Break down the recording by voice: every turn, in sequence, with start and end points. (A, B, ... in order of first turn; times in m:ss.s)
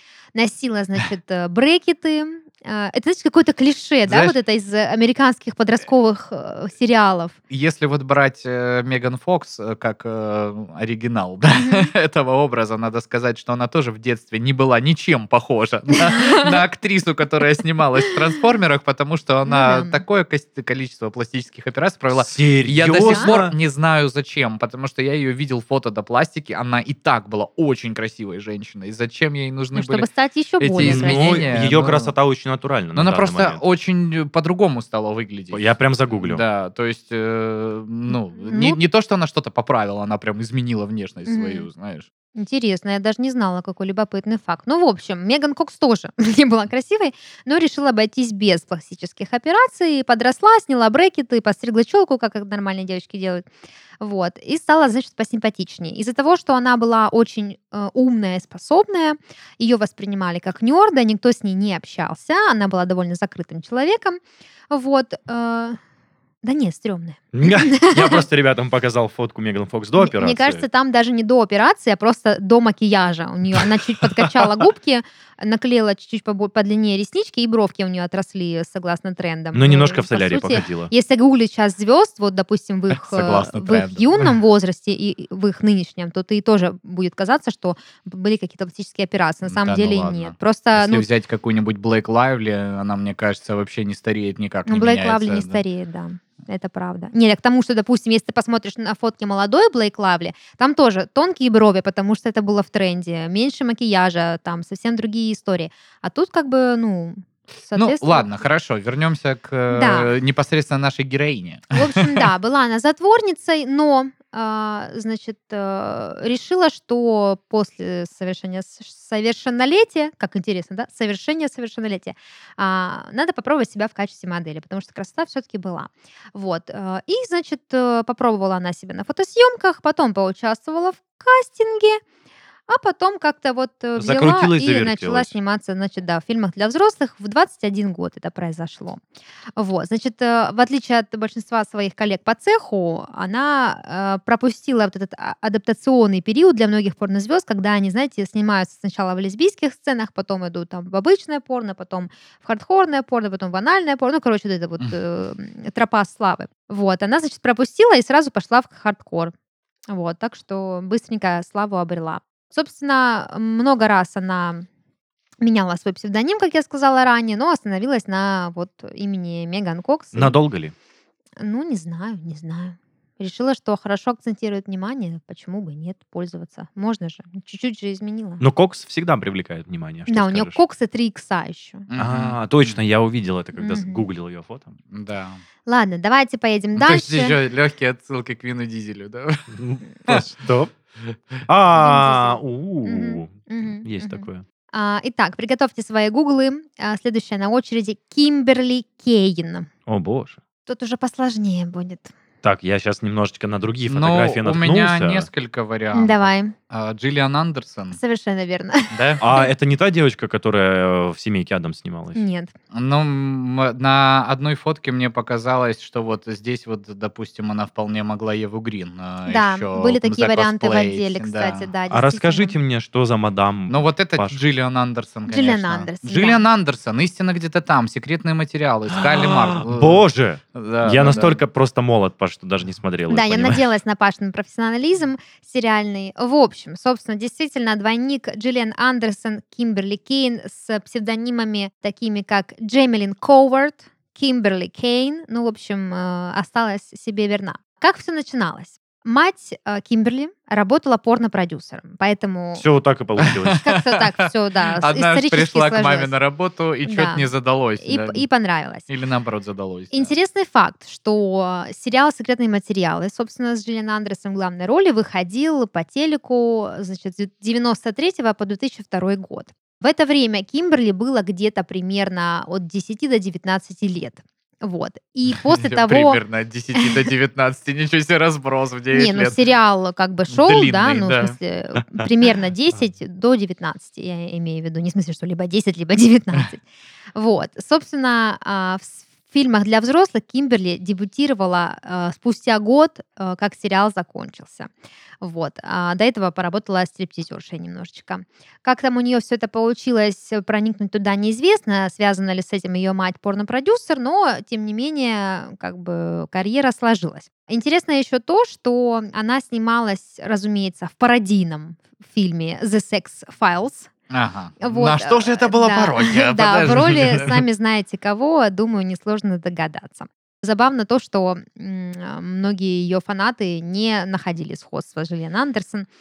0:00.3-0:07.4 A
0:04.0-0:04.4 B
0:07.5-0:30.1 B
0:11.6-0:11.9 A
0:16.1-0:16.5 A
0:19.4-0:20.0 A
0:22.1-0:23.5 C
0:23.0-0:23.3 A
0:29.7-0:31.6 A
0:30.6-0:32.1 B
0:30.8-0:33.6 C
0:32.9-0:35.6 B
0:35.5-0:36.4 C
0:36.2-0:42.1 B
0:38.4-0:38.8 A
0:41.2-0:41.7 A
0:42.3-0:53.4 A
0:54.0-1:05.8 A
1:06.4-1:08.2 A
1:07.3-1:10.6 C
1:10.0-1:31.0 A
1:19.5-1:20.9 C
1:22.9-1:24.3 B
1:29.4-1:35.6 B
1:34.6-1:48.3 A
1:47.8-1:52.3 B
1:49.7-1:50.1 A
1:51.7-2:12.0 A
2:12.7-2:19.0 A
2:14.0-2:15.3 C
2:19.6-2:39.3 A
2:39.9-2:44.6 A
2:45.4-2:50.4 A
2:50.1-2:50.7 C
2:51.4-2:58.4 A
2:58.4-3:00.6 C
3:00.1-3:01.9 A
3:01.9-3:02.8 B
3:02.0-3:04.7 C
3:03.6-3:04.0 A
3:04.9-3:05.4 B
3:05.6-3:07.4 A
3:06.7-3:09.5 B
3:09.5-3:10.7 C
3:11.4-3:14.4 C
3:11.7-3:19.7 A
3:19.9-3:20.4 C
3:20.6-3:22.1 A
3:22.4-3:25.3 C
3:23.9-3:28.0 B
3:25.9-3:26.5 A
3:27.9-3:29.5 A
3:28.9-3:29.2 B
3:29.2-3:32.2 C
3:32.1-3:32.5 A
3:32.7-3:41.7 B
3:39.2-3:42.5 A
3:41.9-3:44.4 C
3:43.7-3:50.0 B
3:45.3-3:46.4 A
3:48.9-3:53.7 C
3:50.5-3:51.4 B
3:53.1-4:12.6 A
4:12.6-4:13.6 C
4:13.2-4:14.2 B
4:13.6-4:16.1 A
4:14.8-4:18.2 B
4:16.8-4:17.3 A
4:17.8-4:18.9 A
4:18.9-4:20.1 B
4:19.9-4:36.2 A
4:35.4-4:39.4 B
4:38.9-4:46.6 A
4:40.3-4:41.4 B
4:47.1-4:54.7 A
4:55.2-5:13.9 A
5:14.1-5:17.4 B
5:14.6-5:25.9 A